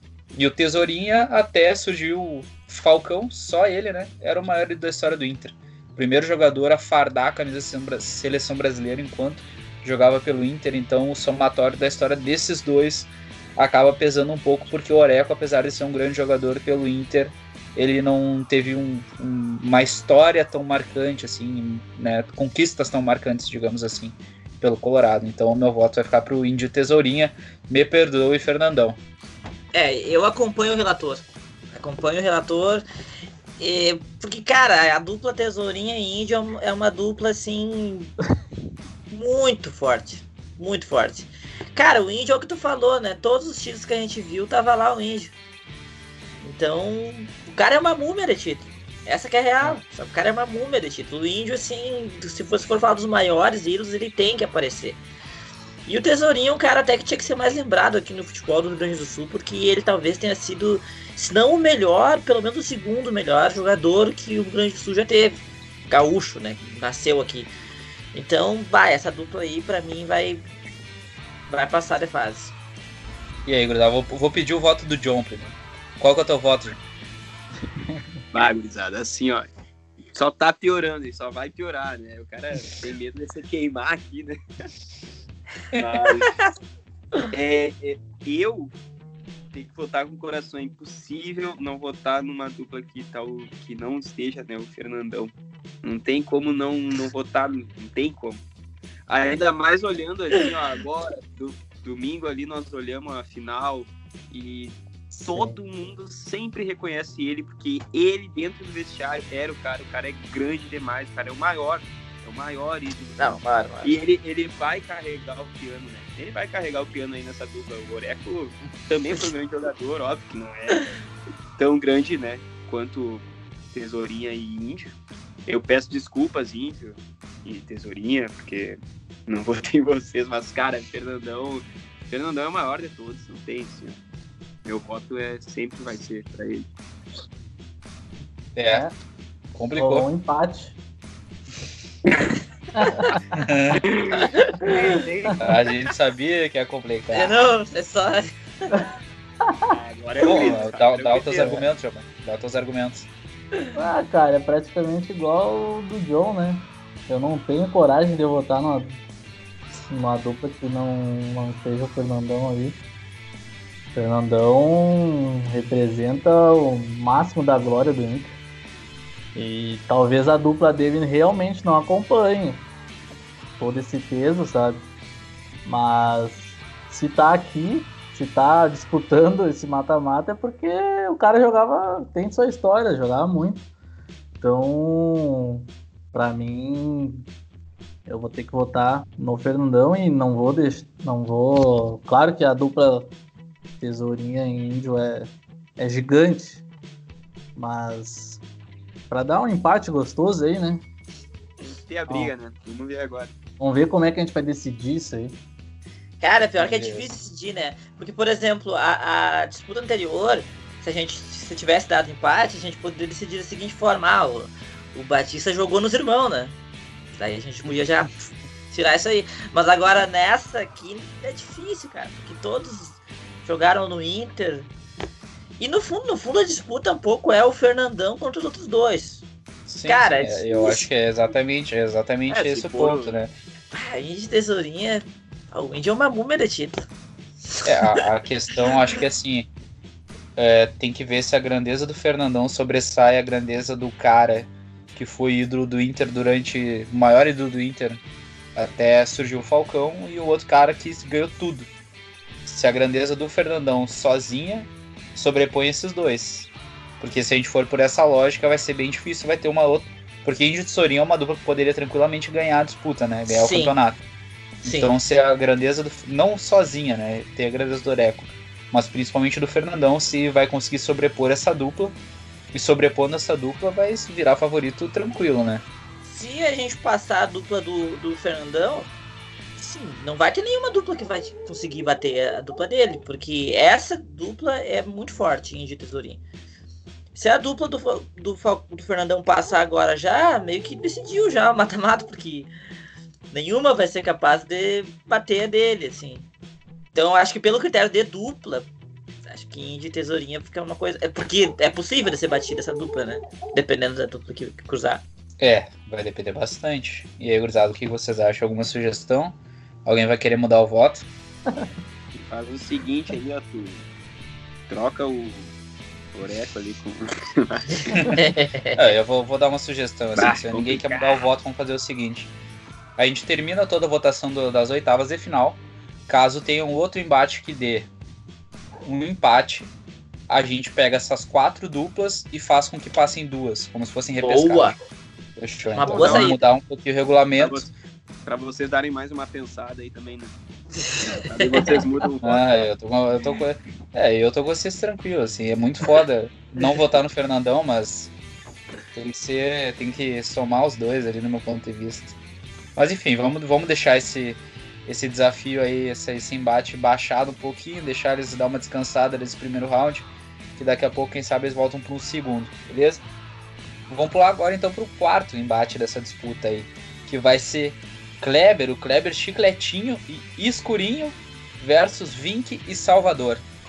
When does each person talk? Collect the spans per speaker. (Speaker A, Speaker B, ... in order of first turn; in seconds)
Speaker A: 0.3-29.0, 73.5-76.8, 138.5-138.9, 139.5-140.1, 143.3-143.8, 145.4-147.3, 150.2-153.1, 206.6-207.1, 229.7-233.3, 237.6-239.5, 240.3-248.0, 248.5-251.7, 252.4-264.0, 264.6-271.9, 272.5-275.6, 305.4-311.1, 318.8-322.3, 323.0-327.9, 328.8-329.7, 330.3-334.8, 335.4-337.7, 342.2-348.1, 348.9-352.2, 352.8-363.0, 363.9-373.4
Speaker B: 29.7-32.8, 33.6-38.2, 39.1-45.3, 46.4-55.0, 55.9-67.5, 68.1-70.4, 71.5-72.5, 113.2-113.9, 144.3-144.7, 147.1-148.7, 206.2-216.5, 217.2-218.1, 218.7-224.7, 225.6-229.2, 229.8-230.9, 233.7-236.8, 237.5-238.0, 238.7-239.0, 263.3-263.7, 264.6-264.9, 276.0-278.9, 279.6-286.2, 287.1-292.5, 293.3-296.2, 296.9-298.7, 299.2-305.0, 318.1-318.8, 334.2-334.8, 335.7-336.4, 340.8-341.8
Speaker C: 77.9-78.2, 139.7-140.8, 142.8-143.2, 153.7-159.0, 159.9-162.8, 163.9-168.4, 169.3-172.7, 173.6-174.9, 175.6-183.7, 184.4-187.3, 188.1-193.1, 193.8-196.6, 197.6-198.4, 199.1-200.8, 203.6-205.4
Speaker D: 78.3-79.5, 80.1-84.4, 85.7-86.4, 87.3-88.7, 89.5-98.4, 99.1-120.9, 121.6-134.0, 134.6-136.7, 143.8-145.5, 149.7-151.6, 201.6-203.3, 232.3-233.2, 312.2-313.8, 314.7-315.5, 316.1-318.1, 320.1-321.3, 335.9-336.4, 337.4-337.7, 338.2-340.4, 341.0-342.6